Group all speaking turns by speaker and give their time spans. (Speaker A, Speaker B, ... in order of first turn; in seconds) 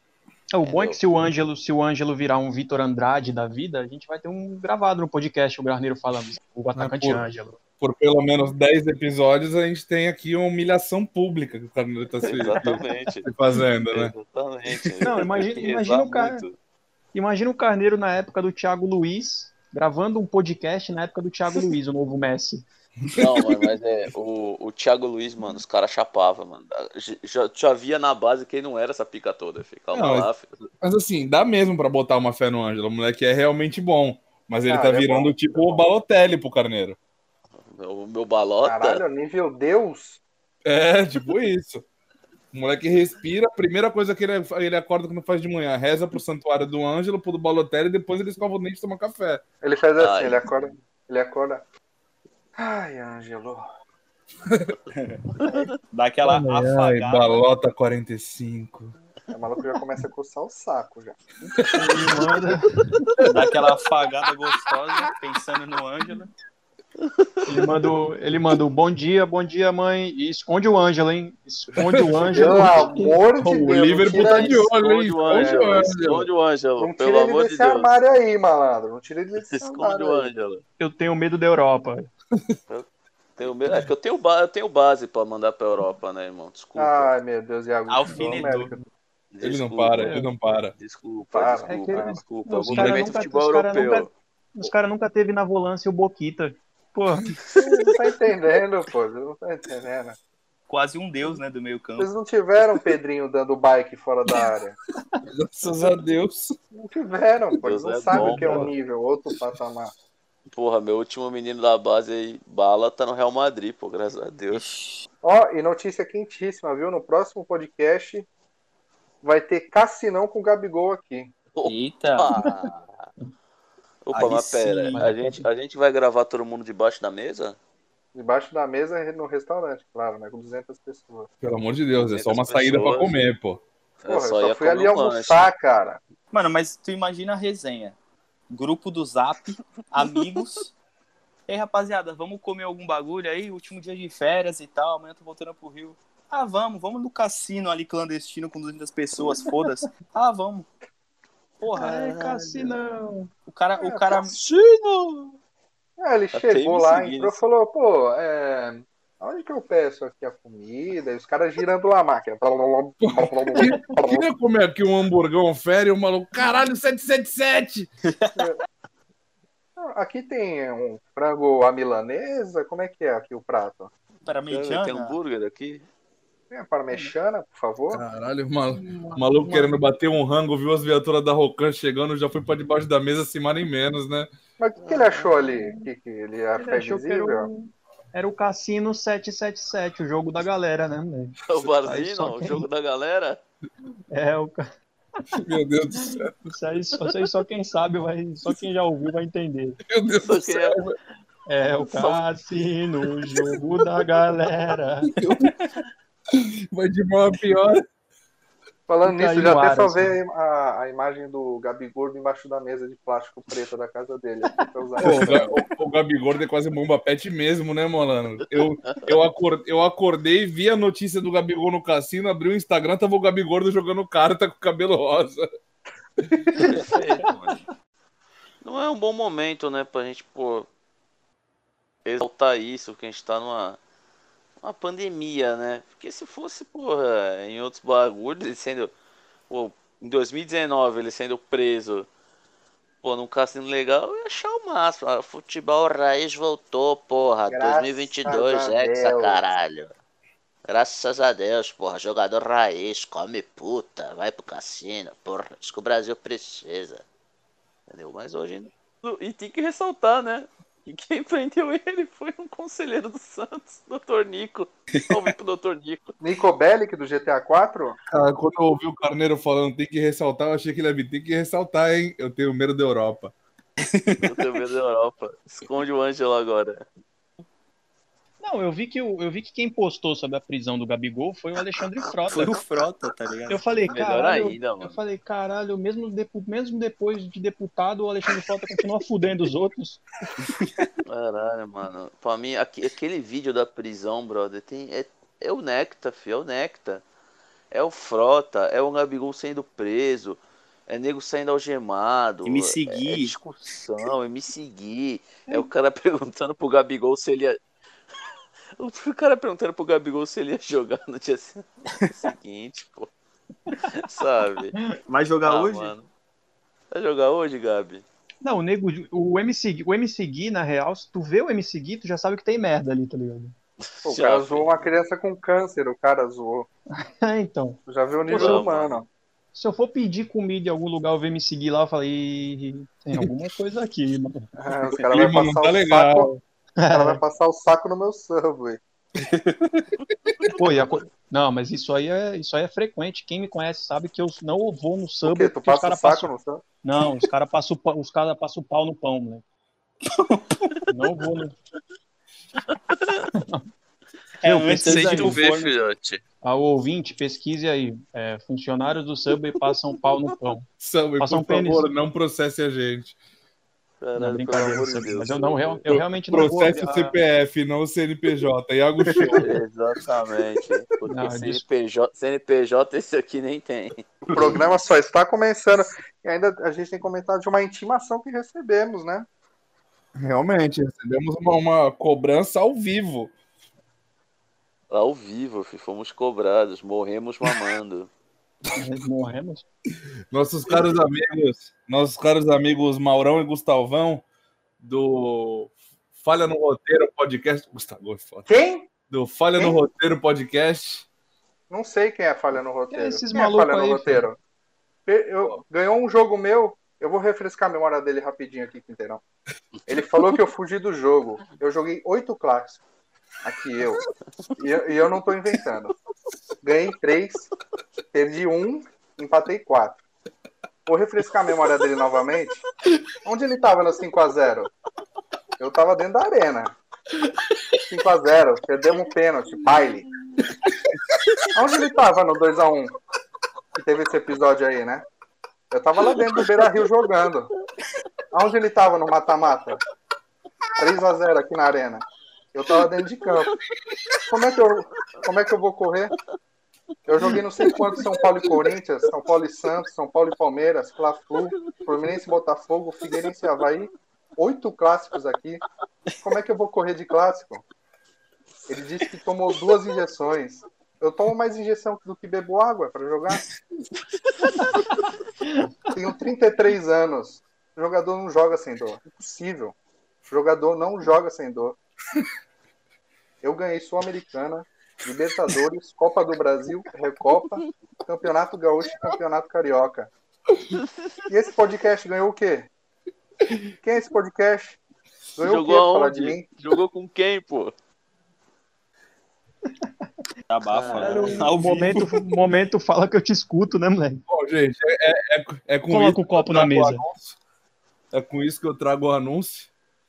Speaker A: 0.5-7.6, 12.3-13.1, 15.0-16.5, 17.1-22.6, 61.7-63.1, 67.5-74.6, 80.8-82.1, 88.1-88.8, 90.0-90.3, 91.7-97.3, 108.1-108.7, 124.9-125.5, 151.7-153.3, 178.7-179.8, 185.4-185.7, 186.6-192.7, 194.1-194.7, 196.4-199.8, 201.5-205.1, 209.0-210.2, 227.2-227.6, 278.4-282.6, 283.5-290.0, 318.4-323.5, 327.0-328.6, 329.5-334.4, 336.8-337.2, 340.5-346.3, 346.8-349.4, 350.9-351.5, 353.3-353.6, 354.4-355.4, 356.4-360.7, 361.2-361.9, 364.1-367.2, 371.1-371.6, 388.8-389.6, 402.9-404.3, 465.4-465.9, 490.9-494.2, 495.9-497.0
Speaker B: 0.6-1.0, 12.2-13.3, 13.9-16.5, 23.1-30.6, 37.6-39.0, 50.0-50.5, 55.4-55.7, 67.0-67.6, 74.2-77.9, 79.5-80.6, 82.7-87.1, 89.3-90.2, 90.8-94.1, 107.6-108.7, 110.5-114.7, 121.5-123.0, 124.0-127.6, 132.1-133.2, 134.0-135.5, 152.1-152.6, 154.2-155.3, 156.3-157.4, 174.5-175.8, 184.8-185.5, 191.4-193.4, 200.2-200.8, 201.9-202.3, 218.8-219.1, 226.6-227.6, 228.6-230.7, 232.0-233.8, 234.6-238.9, 239.5-242.1, 243.0-249.9, 250.7-257.0, 257.9-266.1, 274.2-276.8, 283.9-285.0, 291.1-297.0, 297.7-307.6, 308.8-313.1, 313.9-314.7, 315.4-316.1, 316.9-318.0, 323.9-324.8, 328.3-329.0, 352.6-353.3, 354.8-356.2, 364.0-365.8, 369.4-374.6, 384.9-388.1, 485.4-487.7, 490.7-491.4
Speaker C: 6.8-7.2, 7.8-14.1, 23.1-23.6, 29.9-30.3, 30.8-37.0, 40.6-41.8, 42.5-49.4, 56.3-58.9, 61.6-62.0, 71.8-72.7, 73.6-76.3, 89.4-90.7, 92.7-93.0, 105.3-106.5, 131.4-133.6, 163.1-167.9, 177.9-184.3, 195.3-196.3, 199.9-200.9, 205.1-205.6, 206.3-207.8, 215.0-225.4, 226.2-226.6, 268.1-273.3, 335.1-336.4, 360.8-363.1, 365.9-369.6, 380.2-383.3, 390.3-394.2, 394.8-398.5, 399.1-401.1, 494.3-497.4, 498.1-499.7
Speaker D: 34.6-35.9, 38.6-40.2, 49.6-51.6, 52.6-53.7, 59.3-61.2, 72.3-74.7, 75.3-75.7, 76.8-80.3, 86.8-88.8, 91.3-92.2, 97.6-100.2, 102.0-104.8, 106.7-109.9, 115.2-118.3, 119.2-121.3, 128.1-131.3, 134.1-136.0, 156.0-164.3, 169.8-173.9, 176.5-178.0, 184.6-187.5, 208.9-215.6, 247.5-249.4, 266.2-268.0, 324.0-326.7, 327.9-329.1, 334.6-336.3, 336.9-338.8, 345.2-346.6, 374.3-379.3, 398.5-398.9, 399.5-399.8, 401.7-404.4, 405.1-409.2, 409.9-412.8, 413.4-414.0, 414.6-415.9, 416.6-417.5, 418.1-420.0, 420.9-422.6, 423.2-424.7, 425.6-426.7, 427.9-430.1, 431.5-432.9, 433.8-435.0, 435.7-437.5, 438.3-439.8, 440.8-443.5, 444.3-446.1, 447.1-455.6, 456.2-457.6, 458.7-463.4, 465.9-471.8, 473.4-480.1, 481.3-482.7, 483.8-484.8, 485.4-486.5
Speaker E: 54.9-55.3, 55.9-57.5, 63.3-66.3, 87.9-88.7, 100.7-102.1, 114.5-115.1, 121.7-122.3, 124.1-125.1, 136.3-137.9, 138.5-140.7, 141.5-150.7, 151.6-152.6, 153.5-154.3, 174.2-175.2, 265.0-265.3, 273.8-274.6, 282.3-283.6, 290.4-290.9, 302.4-303.3, 315.1-315.9, 339.2-339.9, 350.0-350.8, 354.4-355.7, 369.1-369.4, 490.5-492.2